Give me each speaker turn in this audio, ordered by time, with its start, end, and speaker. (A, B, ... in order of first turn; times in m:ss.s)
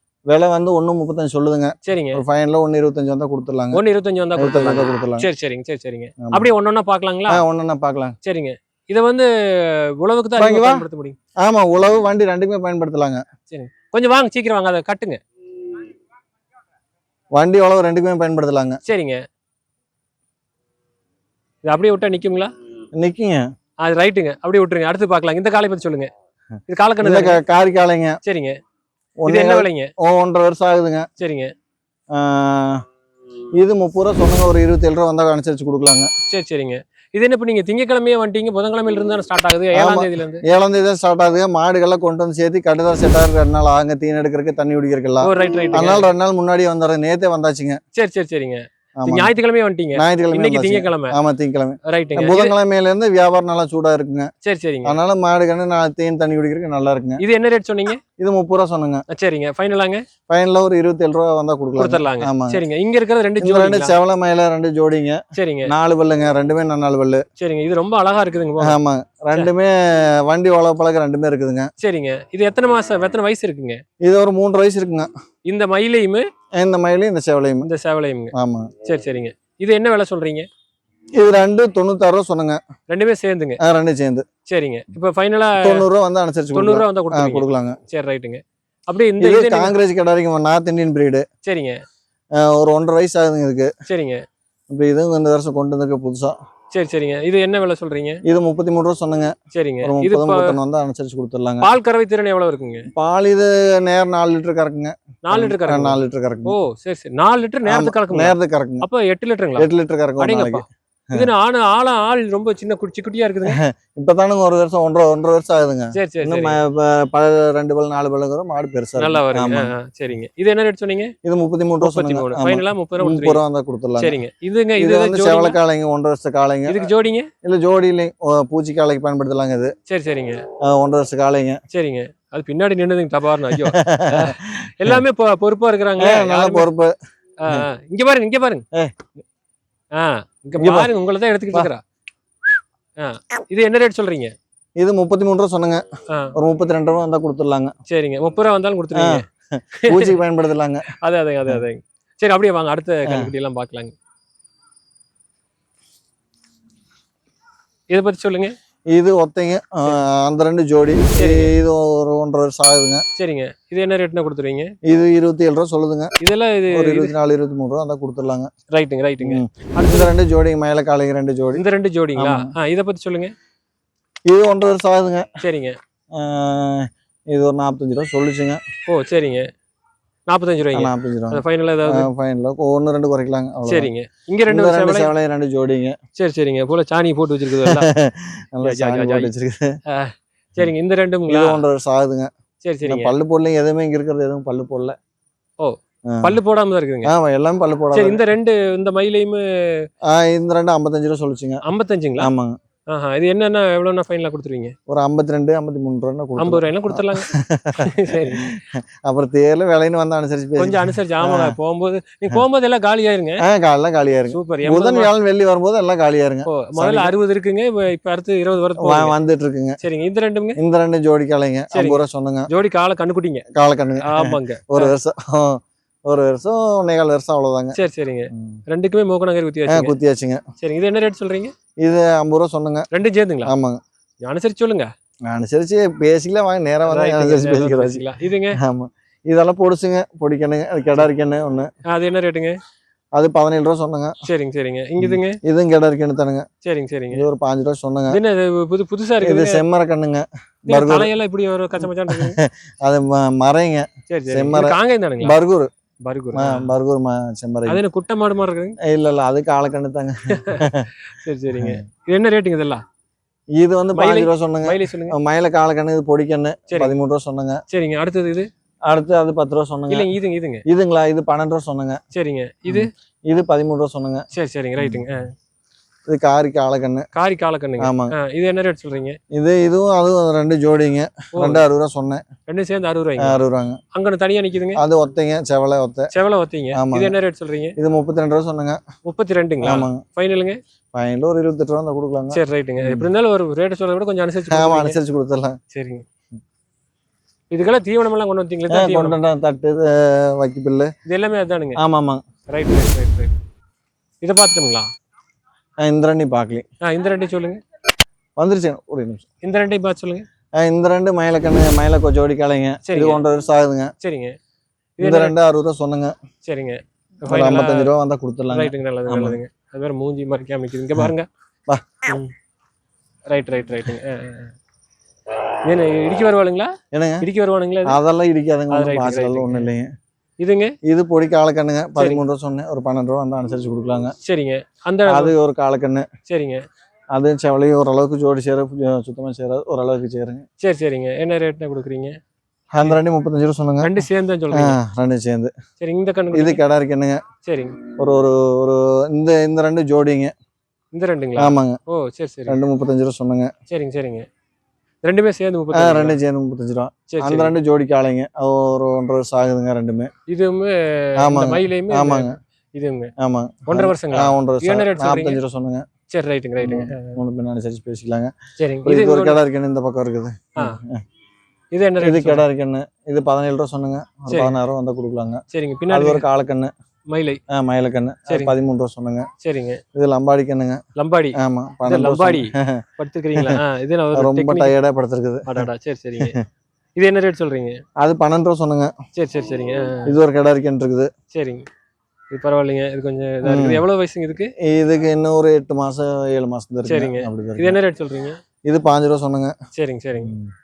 0:00.3-0:03.8 A
0:01.8-0:02.2 B
0:03.7-0:07.4 B
0:04.4-0:05.3 A
0:06.2-0:06.5 A
0:07.3-0:08.1 A
0:08.2-0:11.2 B
0:10.4-0:10.9 A
0:11.4-0:13.2 A
0:13.5-0:15.2 B
0:17.3-0:18.8 A
0:18.8-0:19.2 B
0:21.6-0:22.5 B
0:22.9-0:23.5 A
0:23.8-0:26.1 B
0:26.7-0:27.4 B
0:27.0-0:28.2 A
0:28.2-0:28.6 B
0:29.2-0:31.1 A
0:29.2-0:29.9 B
0:31.2-0:31.5 B
0:32.1-0:32.8 A
0:33.6-0:36.1 A
0:36.3-0:40.4 B
0:39.7-0:47.8 A
0:45.2-0:46.1 B
0:47.9-0:51.2 B
0:49.0-0:49.3 A
0:49.9-0:54.3 A
0:51.8-0:52.6 B
0:54.4-0:55.0 B
0:54.8-0:57.2 A
0:57.2-0:58.0 B
0:58.2-0:59.0 A
0:59.1-1:00.0 B
1:00.3-1:02.6 A
1:01.8-1:04.0 B
1:03.4-1:07.2 A
1:05.3-1:05.7 B
1:07.4-1:08.8 B
1:08.6-1:11.7 A
1:11.8-1:13.8 B
1:14.0-1:15.1 A
1:15.4-1:16.2 B
1:16.5-1:17.7 A
1:17.6-1:20.5 B
1:18.4-1:18.7 A
1:21.2-1:22.6 A
1:22.9-1:23.6 B
1:23.6-1:24.2 A
1:24.5-1:25.8 B
1:25.6-1:27.8 A
1:26.5-1:29.7 B
1:29.2-1:31.2 A
1:31.4-1:31.8 B
1:32.4-1:33.7 A
1:33.8-1:34.2 B
1:34.7-1:36.3 A
1:36.7-1:38.2 B
1:38.3-1:41.7 A
1:39.5-1:40.6 B
1:41.6-1:42.9 B
1:43.0-1:46.6 A
1:45.2-1:53.6 B
1:47.6-1:48.9 A
1:49.6-1:51.3 A
1:53.4-1:59.7 A
1:55.9-1:56.6 B
1:59.0-2:01.1 B
2:01.2-2:04.2 A
2:01.8-2:03.4 B
2:04.0-2:05.6 B
2:04.8-2:06.9 A
2:06.7-2:07.3 B
2:07.4-2:09.7 A
2:09.9-2:10.4 B
2:10.6-2:11.6 A
2:11.7-2:16.7 B
2:13.5-2:15.0 A
2:16.0-2:16.9 A
2:17.4-2:18.6 B
2:18.7-2:19.1 A
2:20.0-2:21.8 B
2:20.6-2:20.9 A
2:23.0-2:24.3 B
2:24.8-2:27.7 A
2:26.1-2:26.4 B
2:27.9-2:30.2 B
2:28.9-2:30.9 A
2:31.0-2:34.0 B
2:33.0-2:33.3 A
2:37.9-2:38.5 B
2:38.9-2:43.0 A
2:41.1-2:41.5 B
2:43.2-2:44.7 B
2:44.8-2:46.1 A
2:46.2-2:47.1 B
2:46.7-2:48.5 A
2:48.7-2:50.1 B
2:49.2-2:51.6 A
2:51.5-2:53.3 B
2:52.2-2:52.5 A
2:54.3-2:55.3 A
2:55.4-2:55.8 B
2:56.1-2:58.6 A
2:58.8-2:59.5 B
3:00.3-3:02.1 B
3:00.7-3:03.9 A
3:03.6-3:05.1 B
3:04.5-3:06.0 A
3:06.1-3:07.9 B
3:07.6-3:09.7 A
3:08.6-3:09.3 B
3:09.9-3:11.6 B
3:11.3-3:12.3 A
3:12.6-3:13.1 B
3:12.8-3:15.0 A
3:15.6-3:17.1 B
3:16.1-3:16.4 A
3:17.0-3:18.2 A
3:17.9-3:19.9 B
3:20.0-3:21.6 A
3:21.6-3:22.3 B
3:22.2-3:22.6 A
3:22.9-3:24.7 B
3:24.9-3:31.6 A
3:26.4-3:28.5 B
3:30.6-3:33.4 B
3:33.4-3:37.1 A
3:34.3-3:35.1 B
3:36.4-3:39.2 B
3:38.8-3:39.8 A
3:39.8-3:40.6 B
3:40.6-3:42.5 A
3:41.7-3:43.4 B
3:43.5-3:47.8 A
3:44.0-3:45.0 B
3:47.7-3:50.0 B
3:49.7-3:50.4 A
3:50.6-3:51.5 B
3:51.8-3:52.9 A
3:52.9-3:53.5 B
3:53.4-3:53.8 A
3:54.2-3:54.9 B
3:55.3-4:01.7 A
3:56.9-3:58.6 B
4:01.9-4:02.6 B
4:03.1-4:04.1 A
4:04.2-4:05.4 B
4:05.0-4:06.4 A
4:06.6-4:07.3 B
4:07.1-4:08.2 A
4:08.1-4:09.6 B
4:09.2-4:11.1 A
4:10.7-4:12.4 B
4:11.8-4:15.7 A
4:14.1-4:15.4 B
4:16.0-4:16.7 B
4:16.3-4:17.8 A
4:17.7-4:18.8 B
4:18.8-4:20.9 A
4:20.3-4:22.8 B
4:21.5-4:21.8 A
4:23.6-4:27.6 A
4:23.9-4:25.2 B
4:26.7-4:26.9 B
4:27.7-4:28.5 B
4:28.9-4:30.1 A
4:29.9-4:30.6 B
4:30.7-4:32.0 A
4:32.1-4:32.9 B
4:32.6-4:34.3 A
4:34.3-4:35.3 B
4:34.8-4:35.1 A
4:36.1-4:37.0 A
4:37.1-4:39.2 B
4:37.8-4:38.1 A
4:39.3-4:42.2 A
4:41.3-4:41.6 B
4:42.5-4:43.4 B
4:43.2-4:43.8 A
4:43.9-4:44.8 B
4:44.7-4:46.1 A
4:46.1-4:47.8 B
4:46.7-4:47.1 A
4:47.8-4:48.8 A
4:49.0-4:50.6 B
4:49.6-4:50.0 A
4:50.9-4:53.1 A
4:52.3-4:55.0 B
4:54.5-4:55.6 A
4:55.7-4:56.0 B
4:57.5-4:59.2 B
4:58.7-5:00.9 A
5:01.0-5:01.8 B
5:01.8-5:02.2 A
5:02.5-5:03.3 B
5:04.2-5:04.9 B
5:05.8-5:06.6 A
5:06.8-5:07.6 B
5:08.4-5:09.2 A
5:09.4-5:10.2 B
5:10.6-5:13.9 A
5:12.8-5:13.2 B
5:14.0-5:14.4 B
5:15.0-5:15.4 B
5:15.0-5:16.1 A
5:16.4-5:17.9 B
5:17.3-5:19.4 A
5:18.5-5:21.3 B
5:21.7-5:22.0 A
5:22.1-5:22.3 B
5:23.3-5:24.5 B
5:25.6-5:28.0 B
5:26.9-5:27.2 A
5:27.8-5:29.9 A
5:28.7-5:29.7 B
5:30.4-5:30.7 B
5:30.8-5:34.1 A
5:32.0-5:32.2 B
5:34.2-5:35.3 B
5:35.1-5:36.1 A
5:36.2-5:36.6 B
5:37.1-5:40.4 A
5:40.6-5:42.1 B
5:42.7-5:44.0 A
5:43.8-5:44.8 B
5:44.5-5:45.5 A
5:45.8-5:46.6 B
5:46.3-5:47.2 A
5:47.4-5:47.8 B
5:48.0-5:50.3 A
5:50.9-5:52.6 B
5:51.4-5:51.8 A
5:52.5-5:53.5 A
5:53.7-5:54.2 B
5:55.0-5:56.2 B
5:55.7-6:00.1 A
5:57.1-5:57.6 B
6:00.3-6:03.1 B
6:01.2-6:02.4 A
6:03.2-6:05.8 A
6:03.7-6:05.4 B
6:06.1-6:07.2 B
6:06.6-6:08.3 A
6:08.6-6:09.4 B
6:08.8-6:11.0 A
6:11.7-6:12.5 B
6:12.0-6:16.7 A
6:14.3-6:14.6 B
6:15.5-6:16.2 B
6:17.1-6:17.4 B
6:17.5-6:19.3 A
6:18.3-6:18.5 B
6:19.4-6:19.8 B
6:19.9-6:20.8 A
6:21.0-6:24.7 B
6:21.4-6:22.8 A
6:23.3-6:23.6 A
6:24.1-6:25.7 A
6:25.4-6:26.4 B
6:27.0-6:27.8 B
6:28.0-6:28.9 A
6:29.1-6:30.1 B
6:30.0-6:31.1 A
6:31.3-6:31.6 B
6:32.3-6:34.5 B
6:33.4-6:33.8 A
6:34.6-6:37.8 A
6:36.8-6:38.4 B
6:38.6-6:39.5 A
6:39.7-6:40.4 B
6:40.2-6:40.5 A